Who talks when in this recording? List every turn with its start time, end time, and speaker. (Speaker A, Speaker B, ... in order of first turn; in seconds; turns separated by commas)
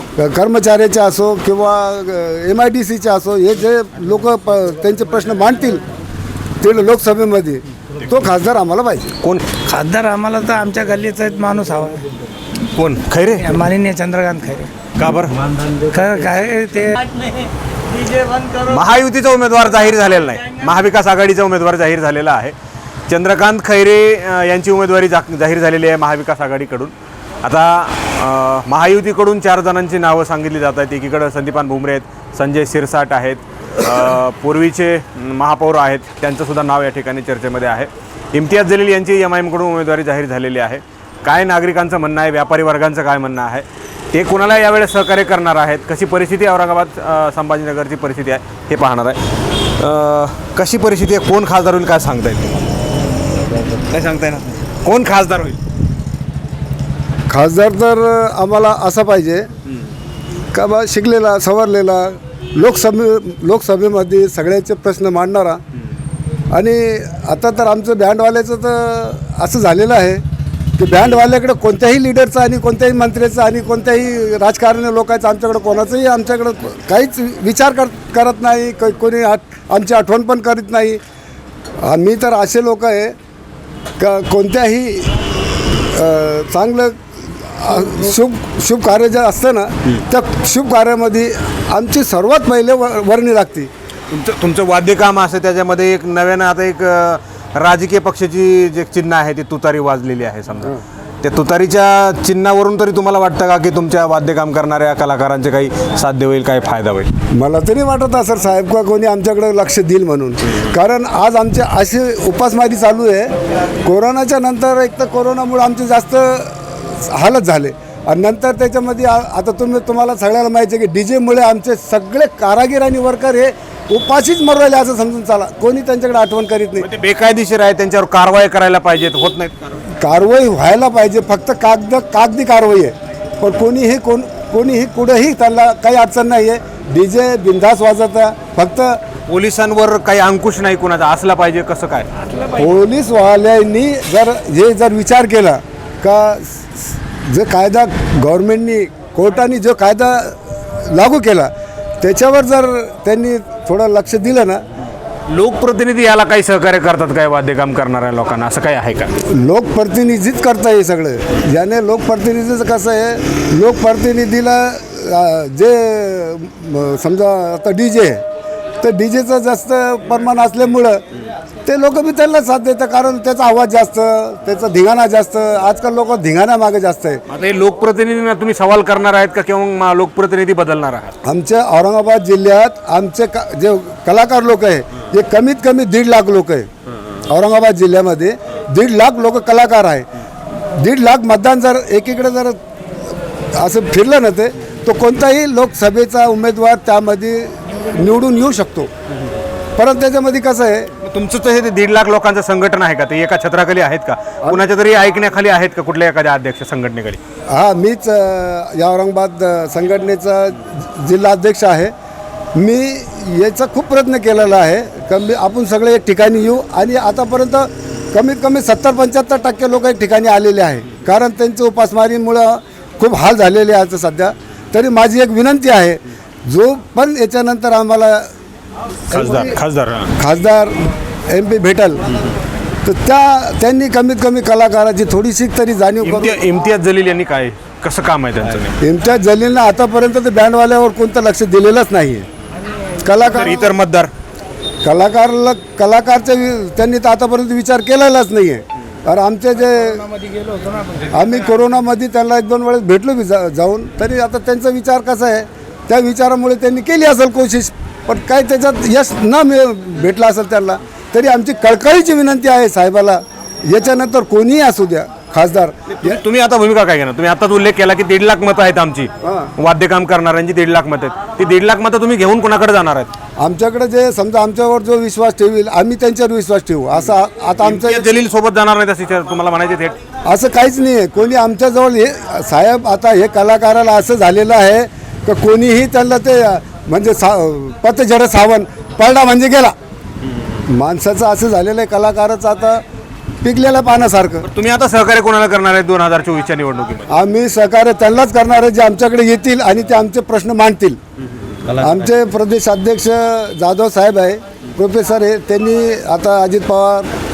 Speaker A: 0.2-5.8, Speaker A: 6.6-9.2, Speaker B: 9.7-12.1, Speaker C: 12.8-13.5, Speaker B: 13.4-14.7, Speaker C: 15.0-15.4, Speaker B: 15.8-17.5, Speaker B: 18.0-18.5, Speaker C: 18.6-22.6, Speaker C: 23.1-49.2, Speaker C: 49.8-52.6, Speaker C: 53.9-55.6, Speaker A: 57.3-59.5, Speaker A: 60.5-65.6, Speaker A: 66.5-70.2, Speaker A: 70.8-81.0, Speaker A: 81.8-83.2, Speaker A: 84.0-85.1, Speaker A: 85.7-93.7, Speaker C: 94.1-107.1, Speaker A: 107.3-126.9, Speaker C: 126.8-129.8, Speaker A: 130.0-139.0, Speaker C: 139.3-142.1, Speaker B: 142.2-142.6, Speaker A: 142.6-151.5, Speaker A: 152.0-154.6, Speaker C: 155.3-159.1, Speaker A: 159.3-168.2, Speaker A: 168.8-171.0, Speaker A: 171.7-177.2, Speaker C: 177.3-181.1, Speaker A: 181.2-186.7, Speaker A: 187.3-190.1, Speaker A: 190.6-192.6, Speaker A: 193.6-198.9, Speaker A: 199.8-200.9, Speaker C: 201.0-207.2, Speaker A: 207.5-211.9, Speaker A: 212.6-228.3, Speaker A: 229.1-229.6, Speaker C: 229.1-230.1, Speaker A: 230.2-232.0, Speaker A: 232.8-236.4, Speaker C: 236.0-238.8, Speaker A: 238.8-242.3, Speaker A: 243.0-243.8, Speaker C: 243.3-244.1, Speaker A: 244.8-250.1, Speaker B: 250.2-251.1, Speaker A: 251.1-266.2, Speaker C: 265.9-273.1, Speaker A: 269.2-269.5, Speaker A: 273.4-278.1, Speaker C: 277.6-280.0, Speaker A: 280.3-289.8, Speaker A: 290.7-292.8, Speaker A: 293.4-294.5, Speaker C: 294.4-297.1, Speaker A: 297.1-301.0, Speaker C: 301.6-302.1, Speaker A: 301.8-307.1